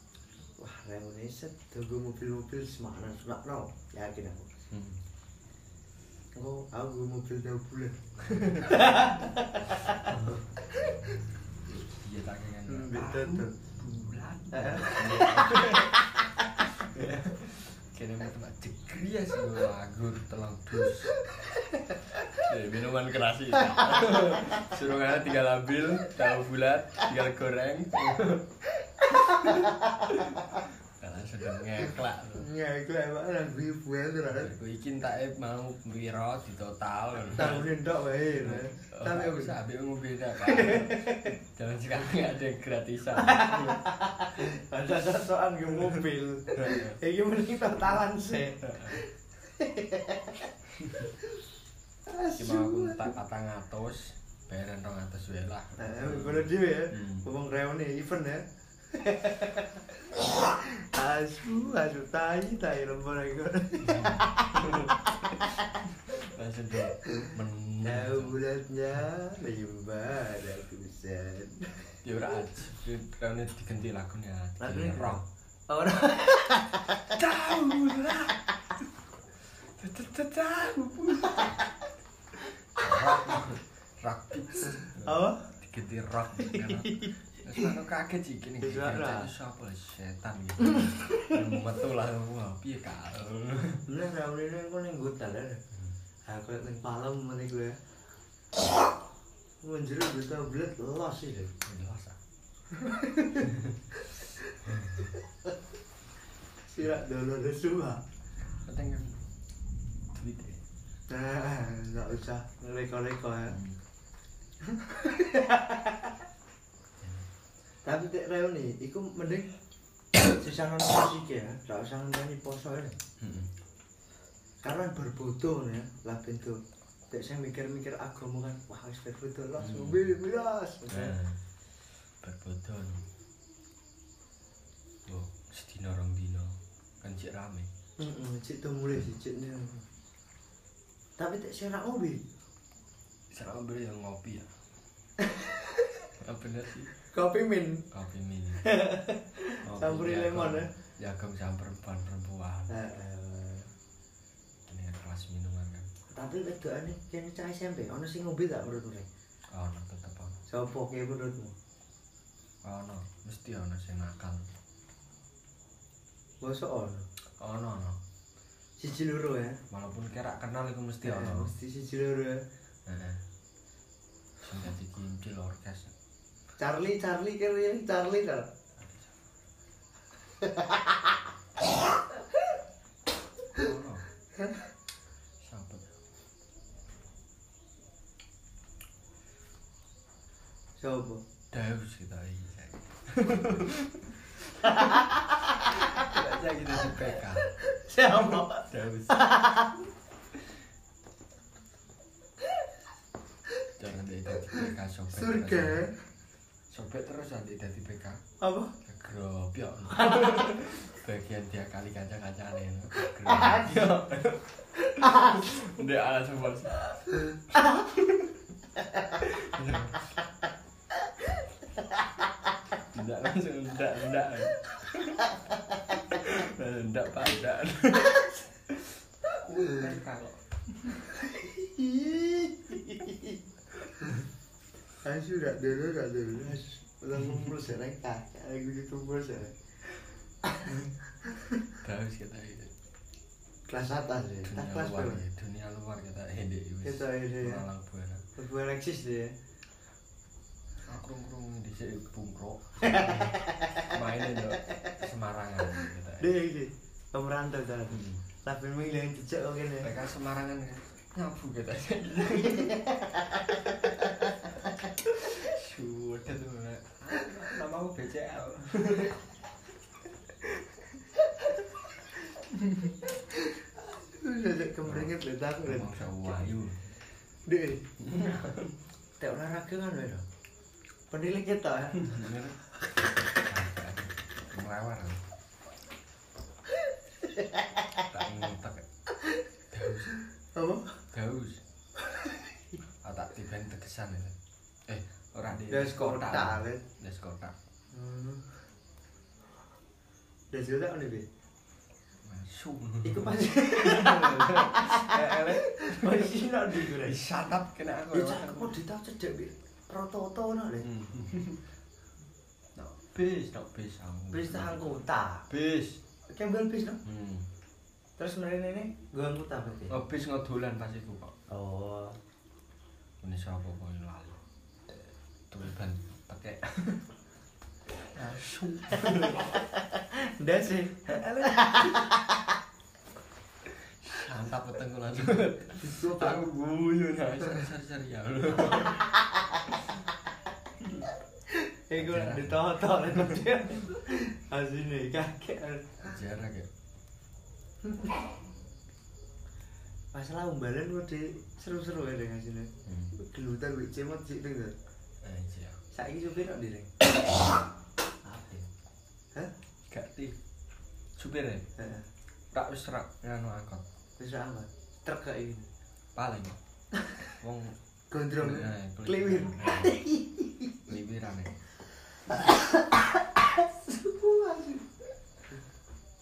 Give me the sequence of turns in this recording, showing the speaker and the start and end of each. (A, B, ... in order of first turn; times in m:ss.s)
0:00.6-0:04.5 A
0:04.7-0:05.0 B
0:06.3-0:10.1 A
0:10.0-0:10.4 B
0:10.7-0:11.0 A
0:11.6-0:16.0 B
0:12.7-0:13.5 A
0:14.5-0:16.0 A
0:16.6-0:21.3 B
0:22.3-0:28.5 B
0:29.0-0:30.6 A
0:29.1-0:32.5 B
0:32.4-0:34.5 A
0:34.3-0:37.8 B
0:37.3-0:39.6 A
0:38.4-0:43.8 B
0:40.4-0:41.3 A
0:43.2-0:50.5 A
0:46.6-0:47.0 B
0:52.1-0:53.2 A
0:52.4-0:57.2 B
0:55.8-1:05.5 A
1:03.8-1:08.4 B
1:07.8-1:11.9 A
1:12.0-1:15.2 B
1:14.6-1:17.3 A
1:17.1-1:18.4 B
1:19.6-1:21.5 B
1:21.3-1:21.6 A
1:22.8-1:33.8 B
1:24.7-1:25.4 A
1:26.5-1:27.1 A
1:28.6-1:29.3 A
1:33.9-1:35.6 A
1:36.3-1:37.8 A
1:39.6-1:41.6 A
1:41.6-1:42.2 B
1:42.8-1:43.5 A
1:44.6-1:45.2 A
1:46.7-1:48.0 A
1:48.6-1:49.2 B
1:50.1-1:50.6 B
1:51.1-1:53.6 A
1:53.5-1:53.8 B
1:54.7-1:56.1 A
1:57.0-1:57.3 B
1:57.8-1:59.5 A
2:00.2-2:03.0 A
2:03.2-2:03.5 B
2:04.6-2:06.6 A
2:07.1-2:11.1 A
2:09.6-2:10.1 B
2:10.9-2:11.4 B
2:12.2-2:13.0 B
2:15.0-2:17.7 B
2:18.0-2:19.8 A
2:21.2-2:22.2 A
2:23.3-2:24.5 B
2:26.2-2:26.9 B
2:27.1-2:27.8 A
2:27.9-2:28.7 B
2:28.6-2:30.7 A
2:29.6-2:32.8 B
2:32.7-2:33.7 A
2:34.7-2:35.9 B
2:36.1-2:39.1 A
2:39.5-2:40.4 B
2:40.5-2:41.5 A
2:42.6-2:44.5 B
2:46.4-2:47.0 A
2:47.4-2:48.0 B
2:48.8-2:49.6 A
2:49.7-2:51.5 B
2:51.0-2:52.4 A
2:52.8-2:53.2 B
2:54.4-2:55.9 B
2:56.6-2:58.5 A
2:58.8-2:59.1 B
3:00.4-3:00.8 A
3:03.5-3:04.0 B
3:05.4-3:05.9 B
3:10.8-3:11.2 A
3:11.5-3:14.9 B
3:14.6-3:15.8 A
3:15.6-3:17.5 B
3:17.2-3:19.8 A
3:18.1-3:19.2 B
3:23.8-3:25.8 B
3:24.5-3:26.0 A
3:26.7-3:28.2 B
3:28.4-3:28.7 A
3:28.8-3:37.2 B
3:33.4-3:33.8 A
3:35.0-3:35.4 A
3:37.6-3:37.8 A
3:39.1-3:40.1 B
3:42.9-3:45.2 B
3:45.9-3:51.0 B
3:51.2-3:53.4 A
3:55.0-3:59.6 A
4:00.5-4:00.9 A
4:01.7-4:02.7 B
4:03.7-4:05.2 A
4:04.4-4:08.2 B
4:06.8-4:07.6 A
4:08.4-4:09.4 A
4:10.8-4:16.3 B
4:12.8-4:13.8 A
4:16.2-4:19.9 A
4:17.9-4:18.2 B
4:19.8-4:22.8 B
4:23.6-4:24.2 B
4:25.0-4:29.2 B
4:33.1-4:36.4 A
4:34.8-4:36.8 B
4:37.4-4:37.9 A
4:38.0-4:38.8 B
4:39.2-4:40.2 A
4:41.1-4:42.2 A
4:42.0-4:42.6 B
4:43.3-4:45.2 B
4:48.1-4:48.8 B
4:49.7-4:50.2 B
4:50.5-4:51.0 A
4:51.1-4:51.6 B
4:52.1-4:52.4 A
4:53.0-4:54.4 B
4:54.9-4:57.5 B
4:55.7-4:56.8 A
4:57.9-4:58.4 A
5:00.5-5:01.2 A
5:02.2-5:08.8 B
5:03.0-5:07.2 A
5:08.1-5:10.9 A
5:10.8-5:11.6 B
5:12.7-5:14.9 B
5:14.3-5:15.5 A
5:15.5-5:16.0 B
5:16.3-5:17.0 A
5:17.0-5:17.5 B
5:18.2-5:20.0 A
5:19.9-5:21.3 B
5:21.5-5:22.2 A
5:23.2-5:24.4 B
5:25.5-5:27.0 B
5:28.1-5:32.4 A
5:28.3-5:29.6 B
5:34.0-5:39.1 B
5:35.8-5:36.5 A
5:41.9-5:46.1 A
5:42.0-5:42.6 B
5:46.0-5:46.7 B
5:50.1-5:54.7 A
5:52.8-5:53.1 B
5:55.2-5:55.8 B
5:55.9-5:57.1 A
5:58.2-5:58.7 A
5:59.9-6:00.4 B
6:01.2-6:01.6 B
6:01.8-6:02.1 A
6:02.5-6:03.8 B
6:04.2-6:05.7 A
6:06.2-6:06.6 B
6:07.4-6:07.8 B
6:08.1-6:10.9 A
6:08.4-6:10.0 B
6:10.9-6:11.5 B
6:12.3-6:14.9 A